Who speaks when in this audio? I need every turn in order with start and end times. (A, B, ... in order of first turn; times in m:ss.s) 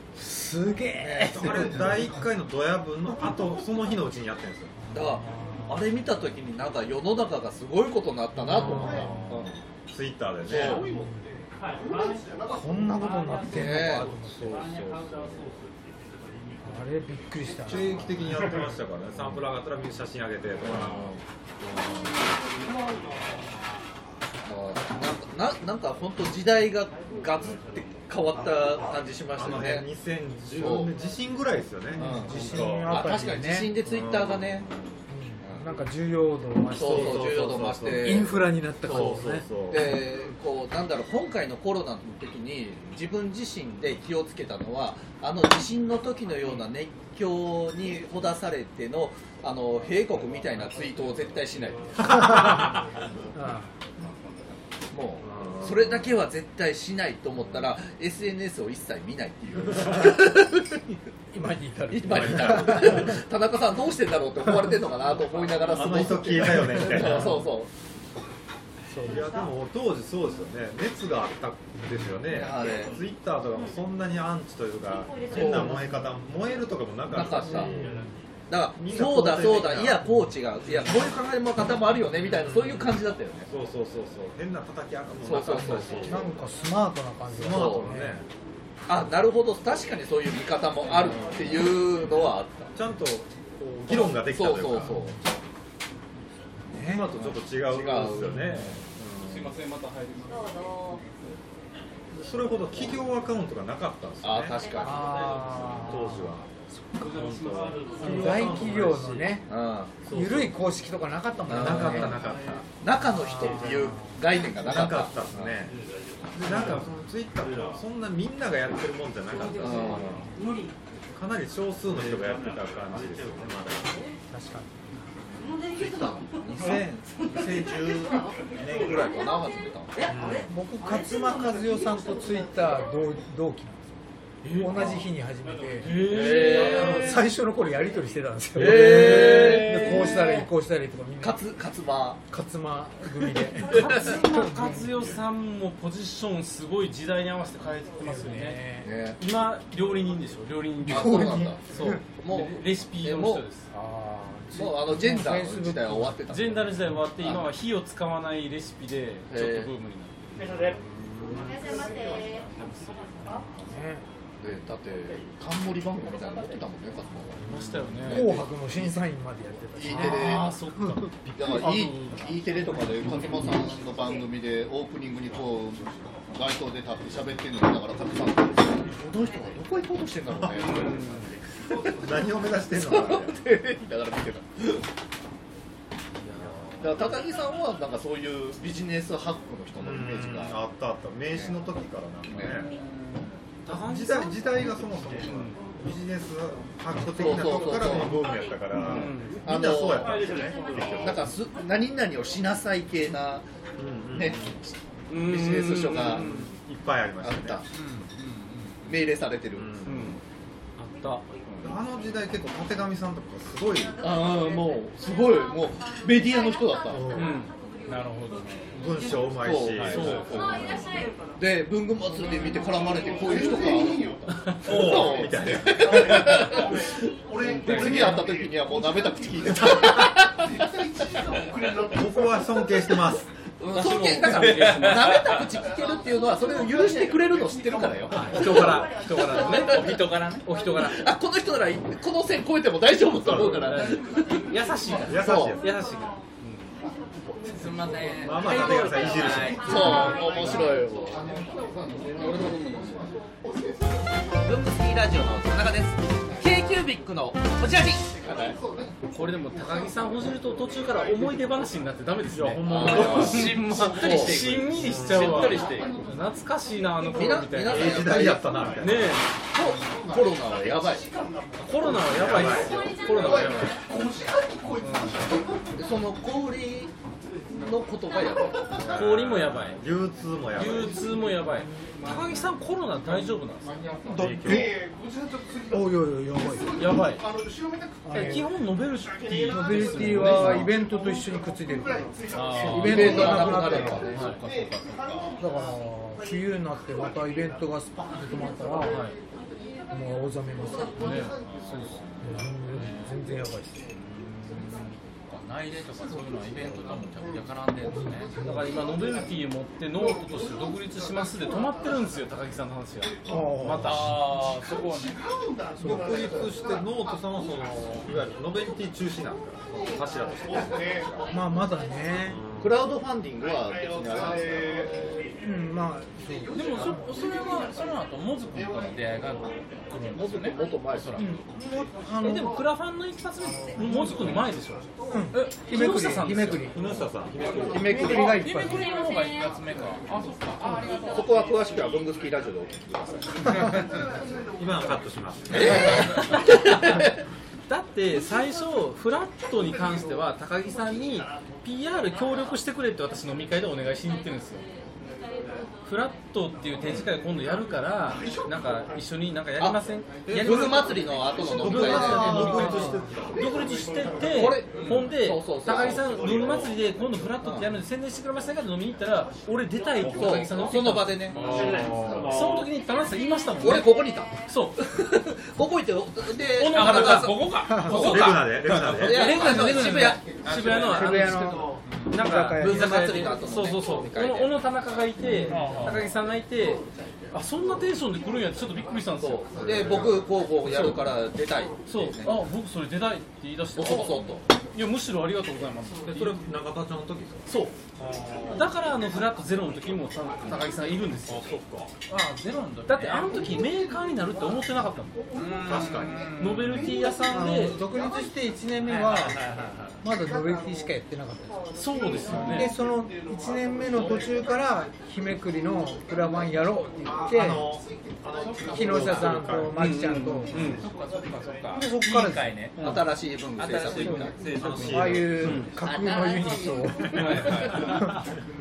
0:00.2-0:02.3 A
0:01.1-0:04.7 B
0:04.9-0:05.9 A
0:04.9-0:09.5 C
0:08.4-0:09.4 A
0:08.5-0:10.8 B
0:10.5-0:10.9 C
0:10.9-0:11.3 A
0:12.5-0:14.6 A
0:13.4-0:14.1 C
0:14.5-0:15.5 B
0:16.6-0:18.7 A
0:17.7-0:21.1 B
0:20.6-0:21.2 C
0:24.5-0:29.9 C
0:29.4-0:32.9 B
0:30.6-0:30.9 C
0:31.9-0:33.7 A
0:32.0-0:34.7 C
0:33.8-0:34.6 B
0:35.1-0:40.1 A
0:36.7-0:52.3 C
0:36.8-0:38.2 B
0:38.9-0:39.9 B
0:52.1-0:52.7 A
0:53.4-0:53.7 A
0:54.9-1:00.8 C
0:55.2-0:56.0 B
1:01.3-1:03.2 A
1:01.9-1:07.7 C
1:05.7-1:07.4 B
1:06.6-1:07.0 A
1:08.9-1:09.3 A
1:09.1-1:17.8 B
1:12.3-1:13.0 C
1:15.3-1:15.8 C
1:17.1-1:17.8 C
1:17.4-1:18.2 A
1:18.5-1:23.5 C
1:18.8-1:20.0 B
1:22.2-1:26.3 B
1:25.2-1:26.2 C
1:26.1-1:28.2 A
1:27.3-1:28.2 B
1:27.5-1:27.9 C
1:28.9-1:32.7 C
1:31.0-1:31.5 B
1:32.7-1:34.9 B
1:33.9-1:35.2 C
1:34.7-1:35.2 A
1:36.7-1:39.5 B
1:36.8-1:37.1 A
1:37.1-1:38.8 C
1:39.2-1:41.1 D
1:42.1-1:46.5 B
1:44.2-1:45.5 C
1:44.8-1:46.4 A
1:47.0-1:49.4 B
1:47.0-1:47.8 D
1:48.0-1:49.5 A
1:49.5-1:50.1 C
1:50.0-1:50.6 B
1:50.1-1:52.2 A
1:51.5-1:52.2 C
1:51.5-1:52.7 B
1:52.8-1:55.6 C
1:52.9-1:54.2 A
1:54.6-1:55.8 B
1:56.3-2:00.2 B
1:59.6-2:00.3 C
2:01.2-2:04.0 B
2:04.3-2:04.8 A
2:05.7-2:07.5 C
2:06.5-2:08.9 B
2:08.6-2:10.1 C
2:10.1-2:10.5 B
2:10.5-2:13.9 A
2:14.4-2:14.8 D
2:14.6-2:21.6 A
2:14.7-2:15.0 C
2:15.8-2:17.2 D
2:15.9-2:17.1 C
2:18.6-2:20.2 C
2:18.7-2:20.5 D
2:21.2-2:22.2 C
2:22.3-2:24.9 A
2:23.4-2:24.2 C
2:23.7-2:28.6 D
2:28.0-2:28.9 A
2:28.8-2:29.2 C
2:29.2-2:33.7 D
2:30.8-2:32.0 A
2:30.8-2:33.8 C
2:33.8-2:36.2 A
2:34.5-2:37.5 C
2:36.3-2:40.5 D
2:39.3-2:39.7 C
2:41.2-2:41.6 A
2:42.1-2:43.4 D
2:43.4-2:44.0 A
2:44.4-2:48.5 C
2:47.4-2:48.4 D
2:48.1-2:51.1 A
2:49.8-2:50.6 C
2:49.9-2:53.6 D
2:51.3-3:04.8 C
3:00.6-3:01.4 D
3:02.0-3:03.4 B
3:06.8-3:10.6 C
3:09.8-3:12.7 B
3:11.3-3:11.6 C
3:12.3-3:12.6 C
3:12.4-3:15.6 D
3:13.7-3:21.3 B
3:17.1-3:18.2 C
3:18.8-3:19.4 D
3:18.8-3:20.3 C
3:20.9-3:23.5 C
3:23.8-3:24.6 B
3:24.1-3:26.5 C
3:25.1-3:26.5 D
3:26.4-3:27.6 B
3:27.2-3:27.6 C
3:27.7-3:29.1 D
3:28.9-3:29.8 C
3:29.6-3:30.2 B
3:29.8-3:30.2 D
3:30.8-3:31.8 D
3:31.6-3:34.0 B
3:34.0-3:37.2 C
3:36.9-3:37.4 B
3:37.1-3:38.7 D
3:38.7-3:40.4 B
3:39.4-3:46.9 C
3:39.8-3:40.7 D
3:44.6-3:46.2 B
3:47.4-3:48.2 D
3:47.6-3:50.5 C
3:51.9-3:53.3 B
3:53.6-4:00.1 C
3:53.7-3:55.4 D
3:54.2-3:55.4 E
3:58.1-3:59.8 D
3:59.6-4:00.6 E
4:00.5-4:01.0 D
4:00.6-4:04.5 C
4:03.1-4:06.7 D
4:05.0-4:05.6 B
4:05.1-4:05.6 C
4:07.5-4:10.2 E
4:08.2-4:09.7 B
4:09.7-4:11.5 C
4:09.7-4:10.6 D
4:12.0-4:13.1 D
4:14.4-4:18.6 C
4:19.1-4:28.3 D
4:22.3-4:23.5 B
4:22.7-4:24.6 C
4:23.0-4:25.9 E
4:24.8-4:25.5 B
4:27.1-4:28.7 C
4:27.7-4:29.2 B
4:28.8-4:29.3 D
4:29.5-4:31.1 C
4:31.6-4:33.8 D
4:32.1-4:32.7 B
4:34.8-4:35.3 D
4:35.8-4:36.9 C
4:37.5-4:38.8 C
4:38.8-4:41.1 B
4:38.9-4:39.8 D
4:40.6-4:43.9 D
4:41.5-4:42.4 A
4:44.1-4:44.7 A
4:44.2-4:44.7 B
4:45.7-4:46.7 A
4:46.8-4:47.2 D
4:48.0-4:48.5 A
4:48.1-4:50.7 D
4:49.4-4:54.1 A
4:52.3-4:55.0 D
4:52.8-4:54.4 C
4:55.0-4:55.3 E
4:55.4-4:59.0 A
4:58.8-4:59.2 D
4:59.9-5:01.2 A
5:01.0-5:02.0 D
5:01.5-5:01.8 E
5:02.2-5:03.8 A
5:02.7-5:03.1 E
5:04.2-5:08.3 E
5:07.9-5:08.7 A
5:08.4-5:14.2 D
5:13.3-5:14.1 A
5:13.8-5:15.2 E
5:15.8-5:16.4 A
5:15.8-5:21.3 B
5:21.3-5:22.4 A
5:22.3-5:22.8 B
5:22.6-5:25.3 C
5:25.4-5:27.1 A
5:26.6-5:26.9 D
5:26.6-5:31.4 E
5:30.1-5:31.2 C
5:31.2-5:32.6 A
5:32.2-5:37.1 D
5:35.1-5:36.8 A
5:36.7-5:38.0 B
5:37.6-5:38.4 C
5:37.7-5:38.9 A
5:38.3-5:41.2 E
5:40.6-5:41.0 A
5:41.0-5:43.5 C
5:44.6-5:46.0 B
5:45.5-5:47.1 C
5:45.8-5:47.1 D
5:47.7-5:54.6 D
5:55.8-6:14.8 D
5:59.6-6:02.6 C
6:00.3-6:00.6 B
6:01.6-6:03.5 B
6:01.9-6:03.0 A
6:04.3-6:06.2 C
6:04.8-6:05.0 E
6:07.4-6:07.7 C
6:10.0-6:12.6 C
6:11.4-6:12.4 B
6:13.6-6:20.7 C
6:16.6-6:30.1 D
6:16.6-6:17.9 E
6:17.6-6:18.1 A
6:17.9-6:19.4 B
6:18.5-6:21.2 E
6:20.9-6:23.0 A
6:21.9-6:22.2 E
6:22.6-6:24.6 C
6:25.4-6:26.1 E
6:29.1-6:32.4 C
6:29.6-6:30.3 B
6:30.6-6:31.2 D
6:31.9-6:36.5 D
6:33.8-6:34.4 C
6:36.1-6:38.7 B
6:37.5-6:37.8 D
6:38.5-6:41.6 D
6:41.3-6:41.9 B
6:42.1-6:43.4 E
6:42.9-6:45.2 D
6:45.4-6:46.9 E
6:45.6-6:46.3 B
6:46.3-6:47.8 D
6:47.2-6:49.4 A
6:48.9-6:50.0 E
6:50.0-6:51.6 A
6:51.7-6:52.7 D
6:52.4-6:57.8 A
6:57.3-6:59.8 B
6:58.7-7:00.6 A
6:59.0-6:59.2 E
6:59.7-7:00.8 D
7:00.6-7:05.2 E
7:01.7-7:02.5 A
7:02.8-7:03.1 D
7:02.8-7:04.4 C
7:04.0-7:04.3 A
7:04.5-7:05.6 B
7:04.9-7:08.2 A
7:05.4-7:05.7 D
7:07.2-7:08.0 D